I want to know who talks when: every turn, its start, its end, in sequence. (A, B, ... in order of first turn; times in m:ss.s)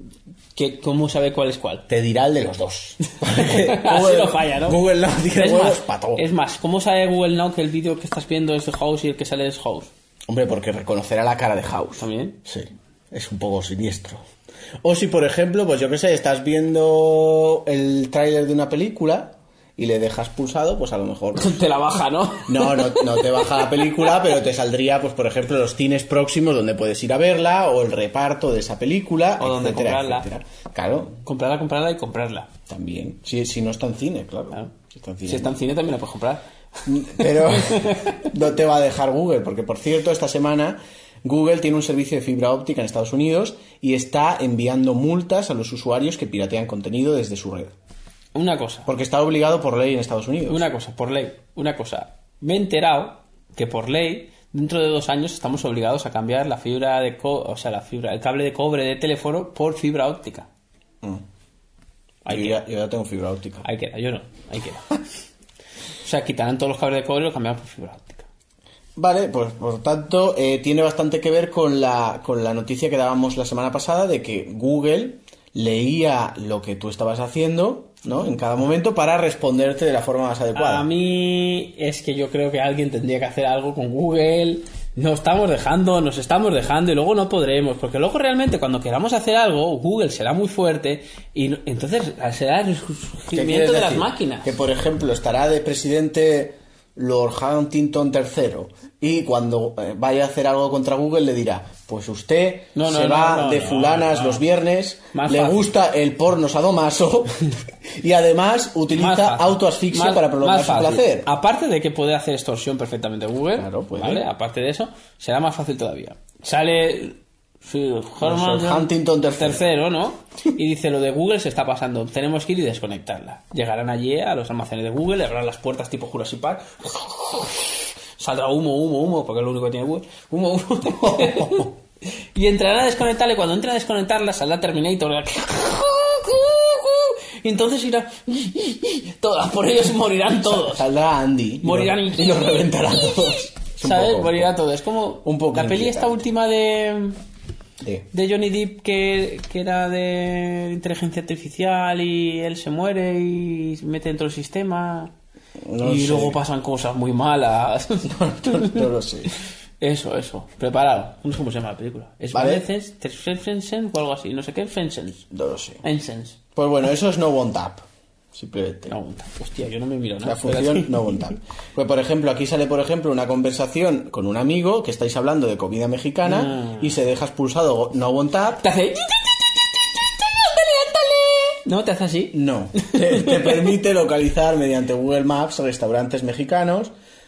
0:00.6-0:01.8 A
0:01.9-0:06.2 B
0:03.1-0:04.8 A
0:05.3-0:09.9 A
0:10.3-0:14.2 B
0:12.0-0:12.4 A
0:14.8-0:21.6 B
0:21.4-0:24.2 A
0:22.5-0:31.2 B
0:29.4-0:30.3 A
0:31.2-0:32.5 A
0:32.7-0:35.6 B
0:35.3-0:38.3 A
0:36.9-0:47.8 B
0:48.4-0:48.9 A
0:48.9-0:50.6 B
0:50.5-1:00.5 A
1:02.2-1:02.6 A
1:02.3-1:03.7 B
1:03.6-1:05.0 A
1:06.0-1:08.3 A
1:09.0-1:20.9 B
1:20.6-1:34.5 A
1:33.3-1:51.3 B
1:42.8-1:44.4 A
1:45.1-1:45.7 A
1:48.9-2:11.8 A
1:53.6-1:54.3 B
1:58.2-1:59.7 B
2:10.9-2:11.7 B
2:12.4-2:20.8 A
2:20.4-2:24.5 B
2:21.6-2:23.2 A
2:23.8-2:27.2 A
2:25.2-2:26.2 B
2:27.8-2:28.1 B
2:28.1-2:35.1 A
2:35.7-2:36.4 B
2:35.8-2:38.9 A
2:38.1-2:39.3 B
2:39.8-2:45.3 A
2:42.3-2:42.7 B
2:45.3-2:45.8 B
2:45.8-2:46.4 A
2:46.6-2:49.0 B
2:48.9-2:51.2 A
2:50.2-2:58.7 B
2:56.3-2:56.9 A
2:58.6-3:03.7 A
3:02.3-3:06.9 B